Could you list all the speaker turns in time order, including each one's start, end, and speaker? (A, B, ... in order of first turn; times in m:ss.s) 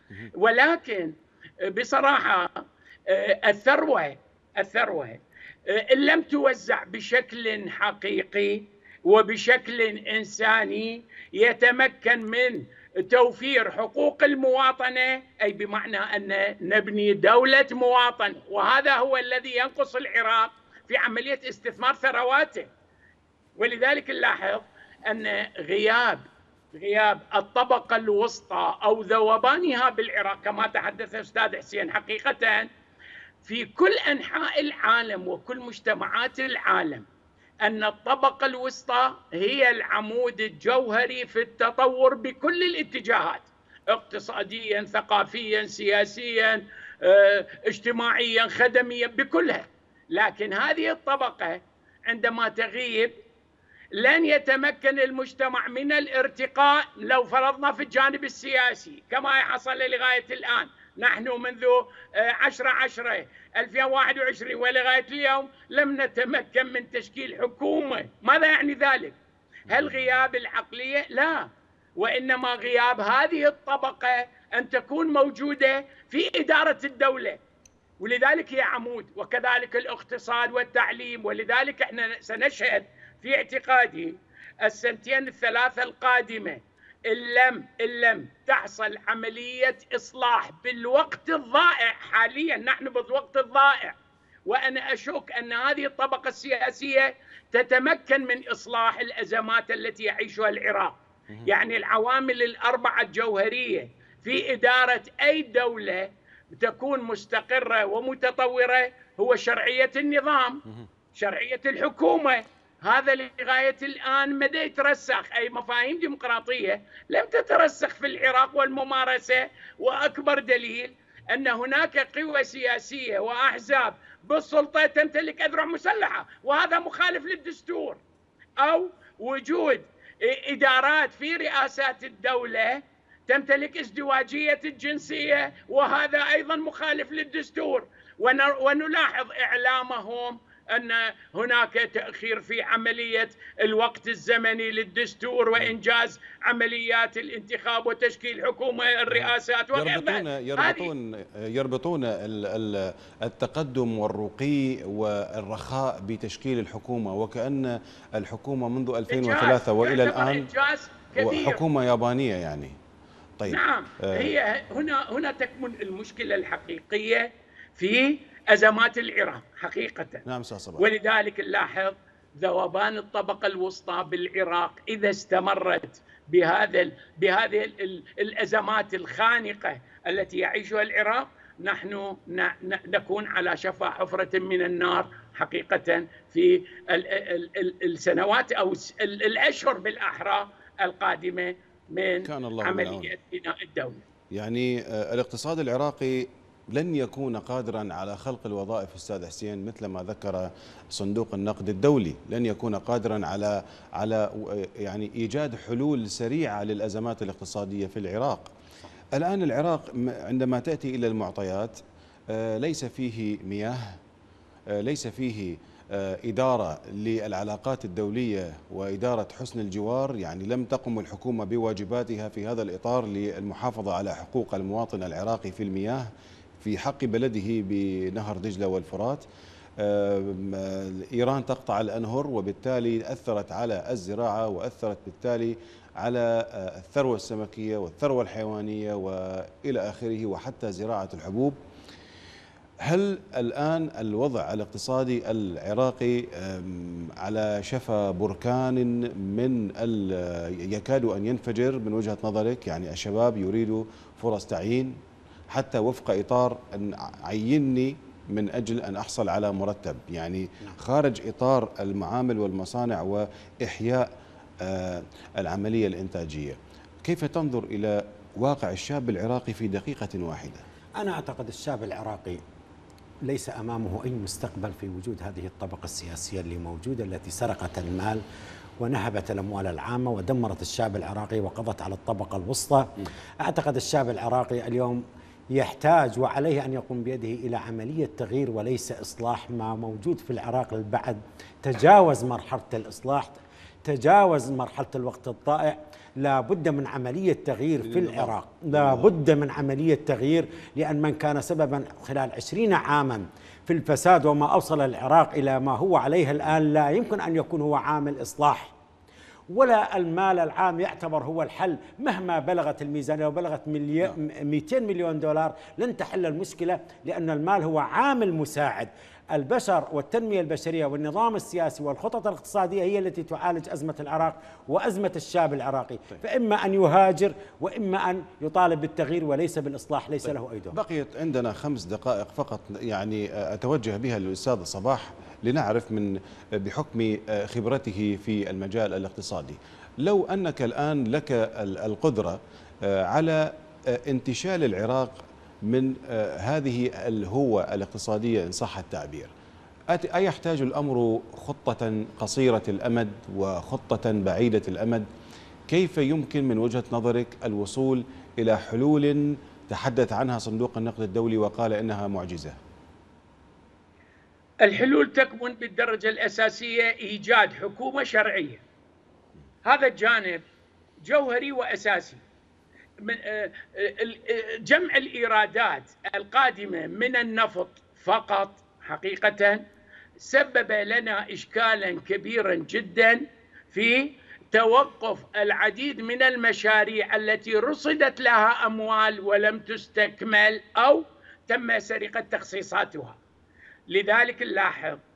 0:00.4-0:22.7 A
0:23.6-0:26.2 A
0:26.7-0:32.7 A
0:33.4-0:37.1 A
0:37.6-0:53.1 A
0:53.9-1:09.2 A
1:09.7-1:09.9 B
1:09.7-1:17.4 A
1:18.0-1:41.0 A
1:41.5-1:50.6 A
1:51.1-2:08.0 A
2:08.6-2:30.9 A
2:29.1-2:40.5 B
2:39.1-2:41.6 A
2:41.2-2:42.8 B
2:43.4-2:44.3 B
2:43.5-2:50.2 A
2:50.2-2:50.9 B
2:50.8-3:14.0 A
3:12.2-3:13.1 B
3:14.3-3:28.5 B
3:29.1-3:34.0 B
3:34.7-3:46.1 B
3:46.6-3:49.3 B
3:49.8-4:01.6 B
4:02.8-4:15.0 B
4:15.5-4:24.1 B
4:24.6-4:30.7 B
4:31.0-4:32.4 C
4:33.2-4:38.2 C
4:38.8-4:42.9 C
4:43.4-4:45.0 C
4:45.5-5:08.7 C
4:57.8-4:59.1 B
5:09.5-5:30.8 C
5:30.7-5:49.3 B
5:49.9-5:55.1 B
5:55.7-6:02.6 B
6:04.6-6:08.6 A
6:09.6-6:10.4 A
6:11.0-6:12.2 A
6:13.0-6:19.6 A
6:20.2-6:33.2 A
6:33.9-6:35.0 A